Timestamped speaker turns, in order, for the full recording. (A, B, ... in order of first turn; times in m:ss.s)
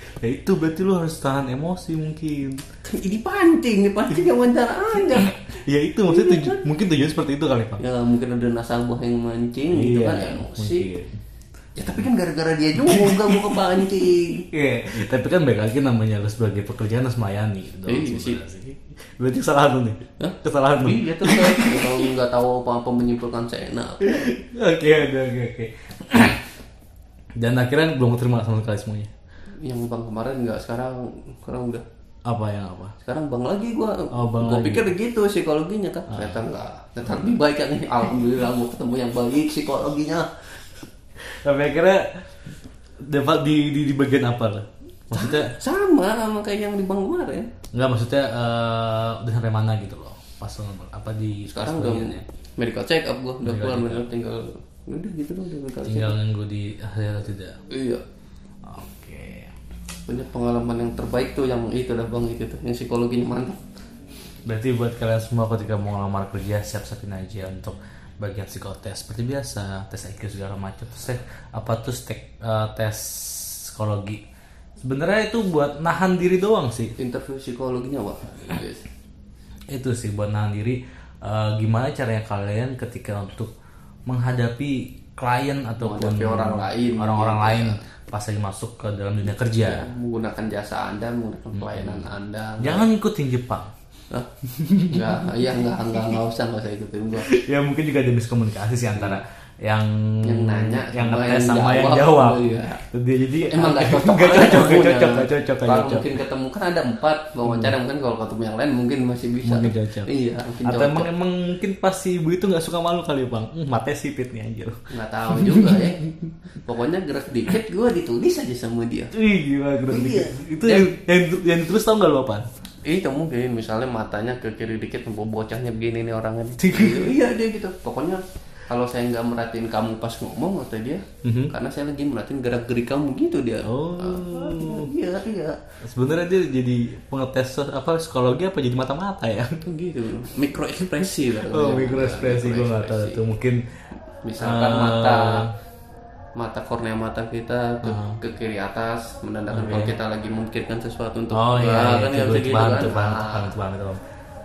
0:00.2-0:02.6 A
0:02.8-0:06.6 B
0:05.1-0:07.8 A
0:07.8-0:10.9 B
0:09.7-0:11.2 A
0:11.8-0:14.5 B
0:12.8-0:13.7 A
0:14.5-0:22.1 A
0:17.8-0:18.4 B
0:20.2-0:24.3 B
0:24.0-0:26.4 A
0:27.4-0:29.1 A
0:29.6-0:31.8 B
0:32.2-0:32.9 A
0:33.0-0:40.3 B
0:34.1-0:34.9 A
0:36.1-0:36.4 A
0:41.2-0:42.1 A
0:43.0-0:45.5 A
0:45.1-0:47.5 B
0:47.7-0:52.2 A
0:51.4-0:56.2 B
0:53.4-0:54.1 A
0:55.8-0:57.6 A
0:57.7-0:58.0 B
0:58.6-0:59.5 A
1:00.1-1:03.6 B
1:04.4-1:14.2 A
1:14.8-1:16.9 A
1:17.0-1:18.9 B
1:19.7-1:23.5 A
1:24.1-1:29.9 A
1:25.8-1:27.8 B
1:29.6-1:32.9 B
1:31.5-1:33.7 A
1:34.4-1:35.2 A
1:34.9-1:37.3 B
1:37.2-1:46.2 A
1:38.9-1:39.2 B
1:40.2-1:42.8 B
1:43.5-1:51.1 B
1:47.5-1:47.7 A
1:49.4-1:50.1 A
1:50.6-1:55.9 A
1:54.9-1:59.1 B
1:59.1-2:02.5 A
1:59.9-2:00.9 B
2:02.8-2:15.6 B
2:06.6-2:07.2 A
2:11.2-2:11.5 A
2:13.6-2:14.9 A
2:15.8-2:19.6 A
2:19.6-2:23.2 B
2:21.5-2:23.6 A
2:24.2-2:25.5 B
2:24.4-2:25.5 A
2:26.4-2:33.5 B
2:27.8-2:28.2 A
2:29.5-2:30.0 A
2:31.3-2:34.0 A